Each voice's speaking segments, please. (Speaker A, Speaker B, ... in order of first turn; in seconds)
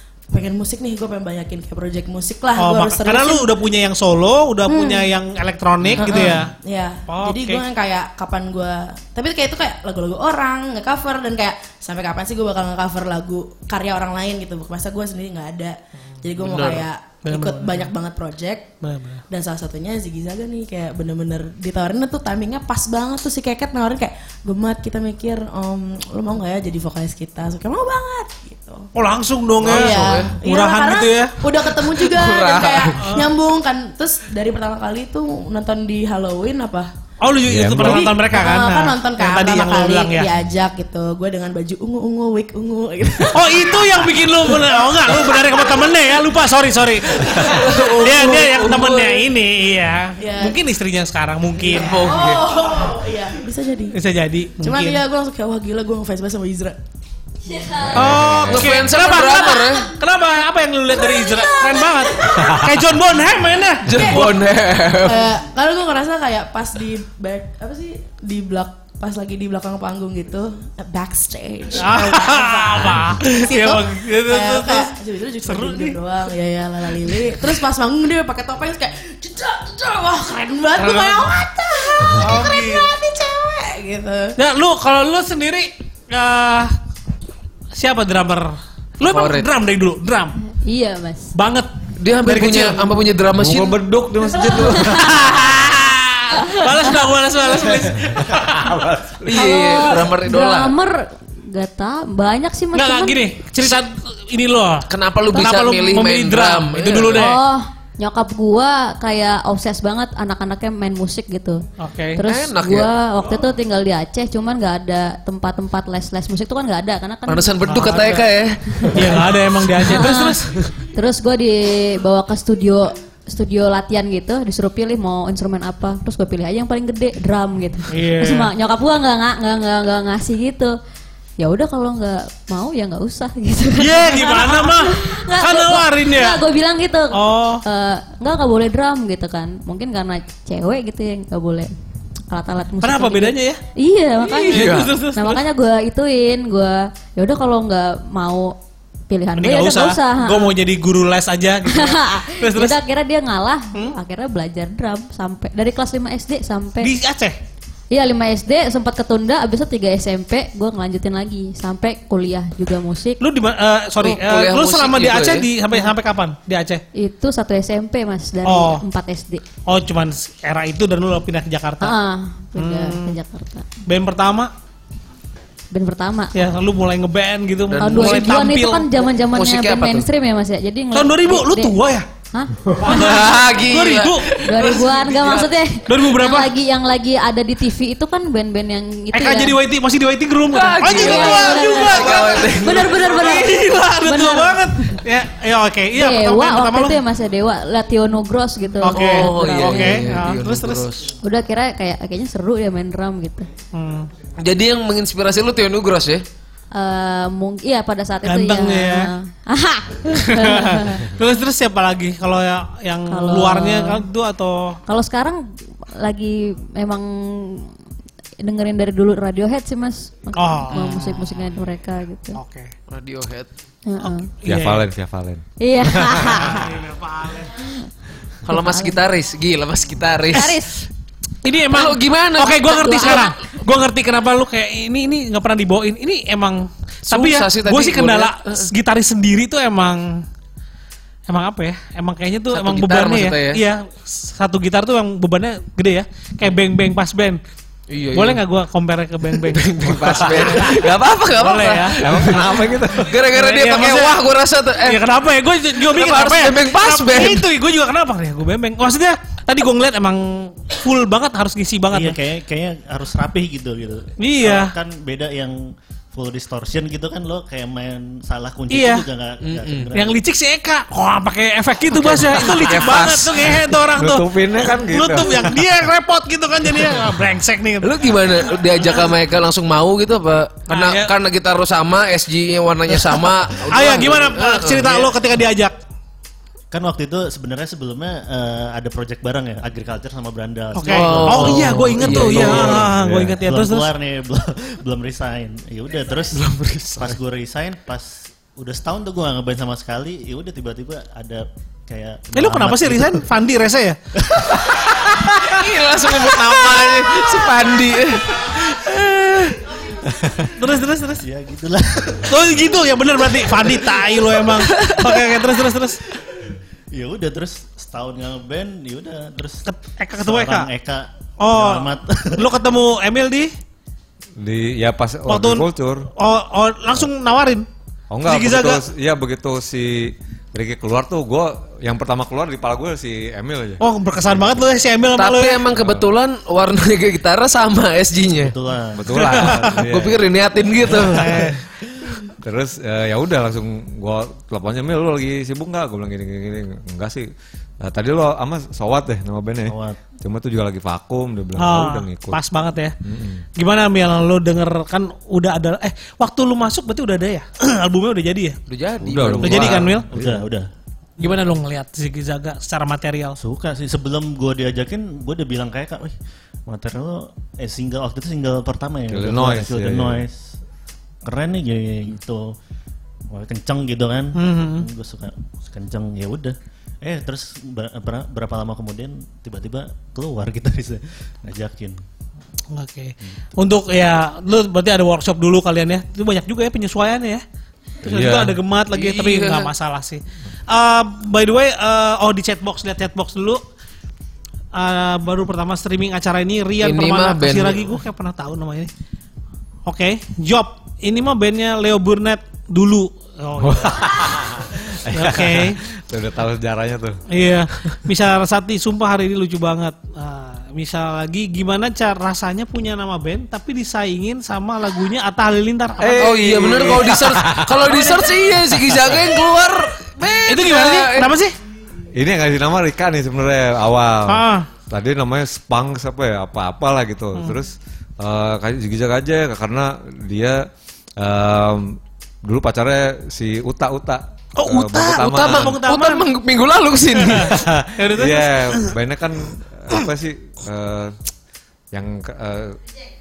Speaker A: 0.3-3.5, 4.7-5.1, 6.0-18.7, 19.3-28.9, 29.6-36.9, 37.8-46.0, 50.2-50.6, 51.6-54.0, 54.6-56.8, 63.9-84.4
Speaker B: 2.6-6.5, 7.1-7.6, 17.2-17.9, 18.8-19.2, 28.9-31.4, 33.0-33.3, 37.2-40.3, 43.3-52.1, 53.9-55.0, 57.9-64.4, 71.8-74.9, 75.5-76.0, 77.0-77.5, 80.8-81.4, 82.1-82.9, 84.4-86.8, 87.7-90.4, 91.3-93.0, 94.8-98.7, 99.6-100.1, 102.7-107.4, 111.8-112.2, 117.7-118.3, 118.9-120.6, 127.9-128.5, 133.8-136.4, 137.1-137.6, 142.8-143.6, 144.2-145.4, 149.4-152.8, 156.8-157.4, 163.2-166.8, 168.4-168.8, 169.6-171.9, 172.6-173.2, 173.9-174.5, 176.3-178.9, 180.9-182.1, 182.7-184.9, 185.9-186.5, 189.1-197.0, 198.8-200.9, 203.7-204.1, 208.2-209.1, 210.1-214.8, 220.4-221.3, 222.3-222.7, 224.0-224.8, 226.4-227.5, 231.4-240.2, 241.3-247.4, 248.1-252.1, 253.1-254.2, 254.8-262.2, 264.2-264.8, 268.7-269.1, 269.9-279.1, 280.7-281.1, 283.0-285.8, 290.8-293.9, 302.4-304.0, 310.6-311.2, 312.3-316.0, 319.7-320.7, 321.4-323.5, 325.3-327.7, 328.3-328.8, 333.8-335.6, 339.1-339.8, 340.9-341.6, 351.6-352.9, 353.6-358.6, 359.4-360.1, 361.2-363.4, 374.4-374.9, 382.7-387.4, 388.0-393.6, 394.7-398.9, 399.9-404.2, 405.1-405.8, 407.3-416.4, 417.9-418.3, 420.5-421.5, 424.3-424.7, 434.6-436.3, 437.2-438.9
Speaker C: 16.4-16.9, 29.6-30.4, 31.9-33.0, 47.3-49.2, 51.7-52.5, 58.1-59.9, 63.9-65.3, 89.0-89.5, 92.0-93.8, 99.2-100.8, 104.9-107.3, 112.2-112.9, 117.3-119.4, 144.5-145.0, 164.0-165.5, 177.7-178.4, 179.2-180.1, 182.8-185.4, 190.5-192.9, 198.9-201.1, 204.4-206.2, 222.9-223.5, 228.4-230.6, 231.7-233.3, 237.1-238.7, 242.5-243.6, 247.9-248.4, 249.4-255.0, 255.7-257.4, 269.4-269.9, 271.9-273.6, 277.8-285.1, 290.8-292.9, 296.3-297.2, 305.1-308.6, 309.1-309.5, 314.6-315.1, 335.1-338.6, 339.7-341.5, 358.7-359.9, 388.9-389.7, 396.8-397.9, 416.2-421.3, 435.2-437.6
Speaker D: 37.5-38.1, 57.9-58.8, 93.3-95.4, 97.8-99.5, 224.5-226.5, 250.1-250.5, 252.0-253.1, 273.9-275.5, 292.9-293.4, 324.4-326.1, 328.1-334.6, 335.7-336.1, 338.9-340.2, 342.4-347.3, 347.8-352.4, 353.0-353.4, 359.0-360.5, 369.1-370.3, 388.0-388.6, 403.6-407.2, 416.0-418.1, 418.7-419.2, 422.1-430.7, 431.2-435.8, 437.5-441.2, 441.9-442.8
Speaker E: 57.5-58.0, 90.6-91.3, 94.7-95.2, 96.3-96.8, 99.4-103.2, 107.2-111.6, 112.2-118.1, 119.8-130.8, 131.4-141.7, 142.3-148.6, 149.1-150.5, 151.7-156.9, 157.9-163.2, 166.9-169.4, 171.8-173.7, 175.7-176.4, 177.8-181.8, 182.3-183.2, 184.4-189.6, 190.9-195.0, 196.0-200.2, 201.2-203.5, 206.7-211.1, 213.1-214.1, 214.9-217.7, 218.4-222.4, 223.9-224.3, 225.6-226.8, 228.7-229.0, 230.3-230.8, 232.8-233.2
Speaker F: 261.9-270.2, 286.7-296.4, 297.0-303.2, 304.2-304.7, 311.2-312.5, 313.6-314.3, 316.3-322.5, 338.4-339.4, 349.7-350.0, 360.1-360.7, 363.4-366.1, 366.7-370.4, 371.2-372.6, 373.3-382.0